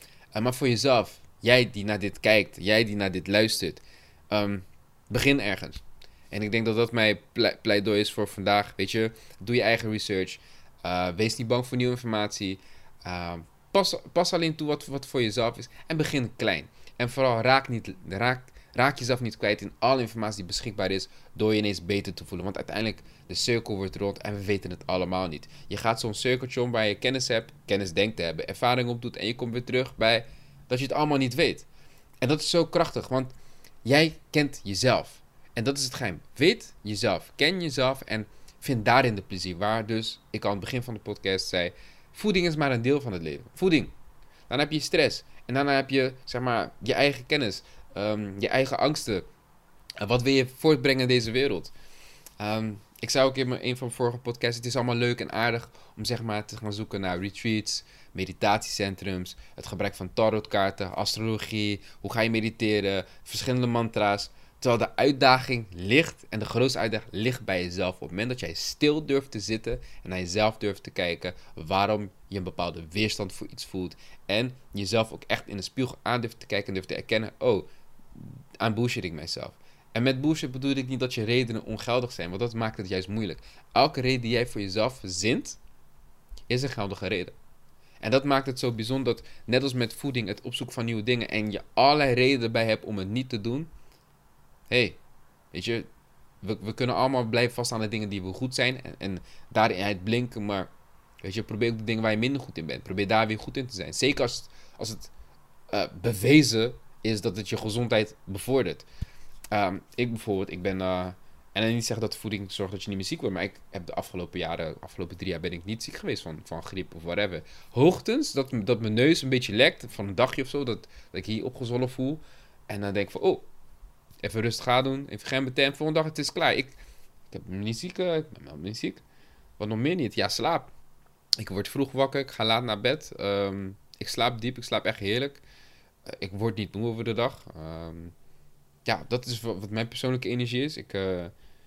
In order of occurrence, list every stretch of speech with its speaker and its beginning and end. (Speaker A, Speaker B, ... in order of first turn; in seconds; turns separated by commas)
Speaker A: 0.3-31.7, Speaker A: 32.2-33.3, Speaker A: 33.8-43.9, Speaker A: 44.5-49.3, Speaker A: 50.0-51.7, Speaker A: 52.4-85.6, Speaker A: 86.5-87.4, Speaker A: 88.0-93.7, Speaker A: 94.7-95.0, Speaker A: 95.5-95.9, Speaker A: 96.4-100.7, Speaker A: 101.2-105.1, Speaker A: 105.7-108.9, Speaker A: 109.5-123.5, Speaker A: 124.2-126.8, Speaker A: 127.3-129.0, Speaker A: 129.6-130.7, Speaker A: 131.4-135.4, Speaker A: 136.1-138.1, Speaker A: 138.9-141.3